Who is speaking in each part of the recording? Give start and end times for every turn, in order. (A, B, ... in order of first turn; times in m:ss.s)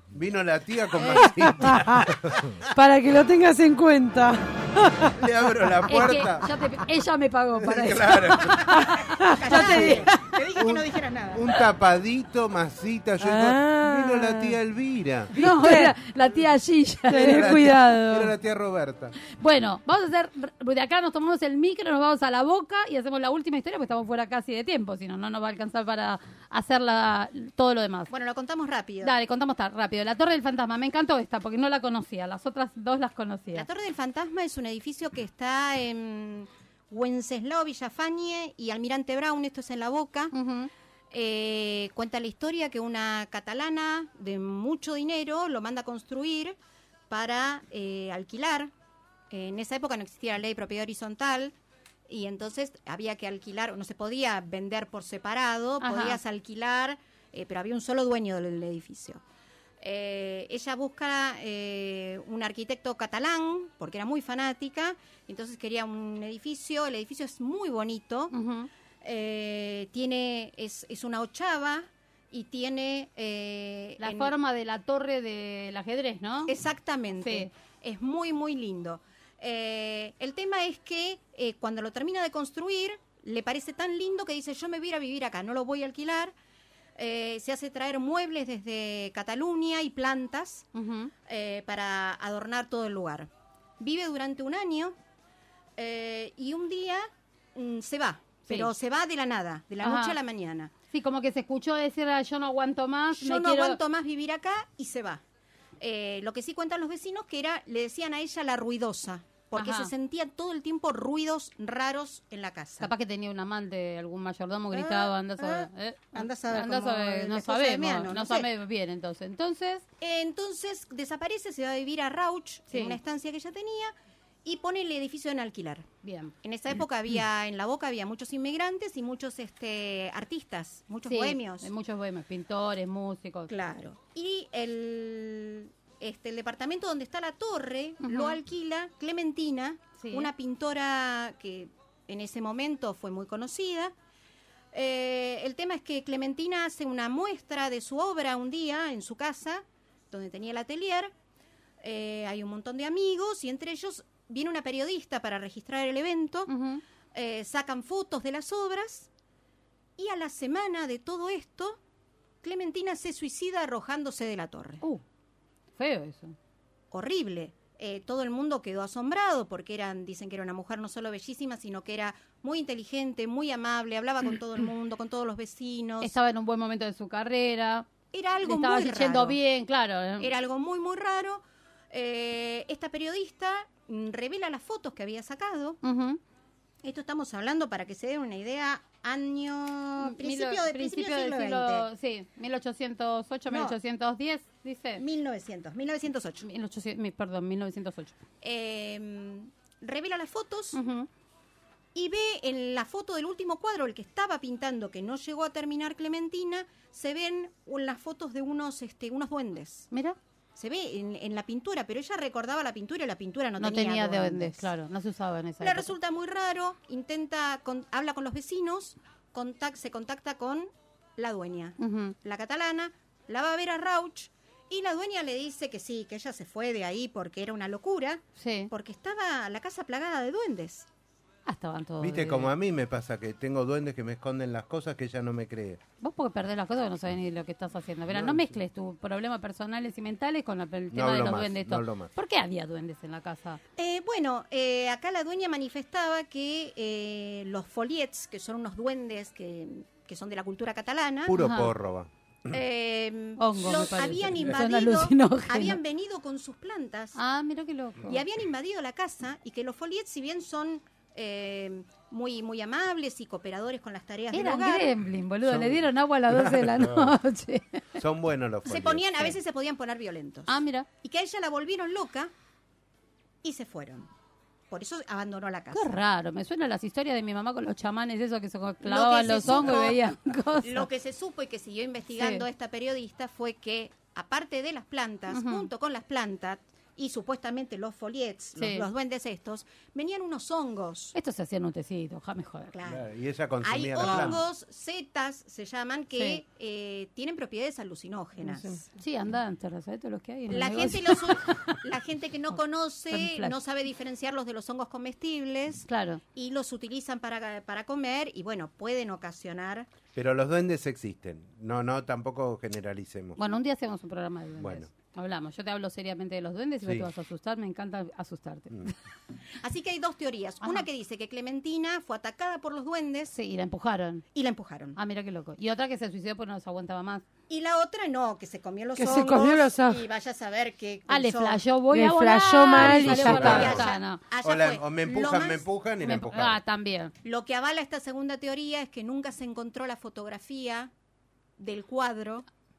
0:00.1-0:02.6 A
0:01.2-0:02.1 B
0:02.7-0:05.2 B
0:05.2-0:06.5 A
0:05.9-0:08.7 C
0:07.6-0:09.0 A
0:08.4-0:11.5 D
0:08.8-0:10.1 B
0:09.5-0:10.4 C
0:10.6-0:15.3 A
0:13.2-0:14.6 B
0:15.3-0:15.9 B
0:15.3-0:17.6 C
0:17.1-0:18.3 B
0:17.1-0:19.1 A
0:19.3-0:28.1 C
0:28.1-0:29.1 D
0:29.0-0:33.7 C
0:33.5-0:40.3 D
0:40.3-0:40.7 C
0:41.1-0:46.5 D
0:47.1-0:48.7 D
0:49.3-0:51.5 D
0:52.1-0:59.2 D
0:55.8-0:56.2 C
0:59.8-1:08.3 D
1:08.3-1:08.7 C
1:09.0-1:14.3 D
1:14.0-1:16.5 C
1:16.5-1:26.3 D
1:17.2-1:17.5 C
1:27.0-1:30.7 D
1:30.8-1:31.1 C
1:31.2-1:33.3 D
1:33.8-1:34.9 D
1:35.8-1:40.7 D
1:39.8-1:40.2 C
1:40.9-1:43.8 C
1:43.2-1:45.2 D
1:45.8-1:52.9 D
1:49.5-1:49.9 C
1:52.8-1:59.8 C
1:54.7-1:58.5 D
2:00.0-2:03.9 D
2:02.7-2:03.0 C
2:04.4-2:05.8 D
2:06.0-2:06.3 C
2:06.4-2:11.7 D
2:11.1-2:13.5 C
2:13.5-2:23.9 D
2:18.0-2:18.4 C
2:20.0-2:20.3 C
2:24.7-2:31.1 D
2:31.8-2:36.5 D
2:36.5-2:36.8 C
2:37.1-2:39.1 D
2:40.0-2:41.8 D
2:42.4-2:44.8 D
2:45.8-2:46.4 C
2:46.9-2:56.1 D
2:56.0-2:57.9 C
2:58.1-2:59.4 D
2:58.4-3:00.3 C
3:00.2-3:05.8 D
3:05.8-3:06.2 C
3:06.8-3:11.8 D
3:10.0-3:15.0 C
3:13.5-3:13.8 D
3:15.0-3:16.4 D
3:16.4-3:18.1 C
3:18.4-3:20.8 D
3:20.7-3:21.1 C
3:21.9-3:29.9 D
3:29.9-3:30.2 C
3:30.6-3:34.7 D
3:33.6-3:35.9 C
3:35.6-3:50.9 D
3:41.8-3:42.1 C
3:48.4-3:48.7 C
3:51.4-3:52.5 C
3:52.0-3:55.8 A
3:56.0-4:03.6 C
3:58.1-3:58.5 A
4:00.9-4:02.1 A
4:03.8-4:11.4 D
4:11.3-4:12.6 A
4:11.3-4:11.7 C
4:12.5-4:17.2 D
4:13.4-4:15.8 C
4:17.1-4:18.2 C
4:18.0-4:24.9 D
4:24.3-4:28.0 C
4:25.4-4:27.2 A
4:28.0-4:29.4 A
4:28.6-4:32.3 D
4:30.5-4:30.9 C
4:33.4-4:34.1 D
4:34.7-4:35.9 D
4:35.7-4:40.9 C
4:38.8-4:40.0 D
4:40.6-4:51.1 D
4:42.2-4:42.4 C
4:45.3-4:45.7 C
4:48.6-4:48.8 C
4:51.1-4:52.7 C
4:52.7-4:53.0 D
4:52.8-4:54.4 A
4:53.6-4:58.8 D
4:56.2-4:56.4 C
4:59.0-5:01.8 C
5:00.5-5:09.9 D
5:03.1-5:03.5 C
5:05.9-5:06.2 C
5:10.1-5:13.4 A
5:13.4-5:19.0 C
5:14.6-5:14.9 A
5:16.8-5:17.1 A
5:19.6-5:23.3 D
5:23.3-5:24.2 C
5:24.3-5:25.0 D
5:25.0-5:27.2 C
5:27.5-5:31.6 D
5:29.0-5:30.0 B
5:31.1-5:34.2 C
5:31.9-5:33.8 B
5:32.8-5:33.9 A
5:32.9-5:35.6 D
5:34.4-5:36.6 A
5:36.0-5:37.1 C
5:37.2-5:40.9 D
5:41.6-5:42.4 D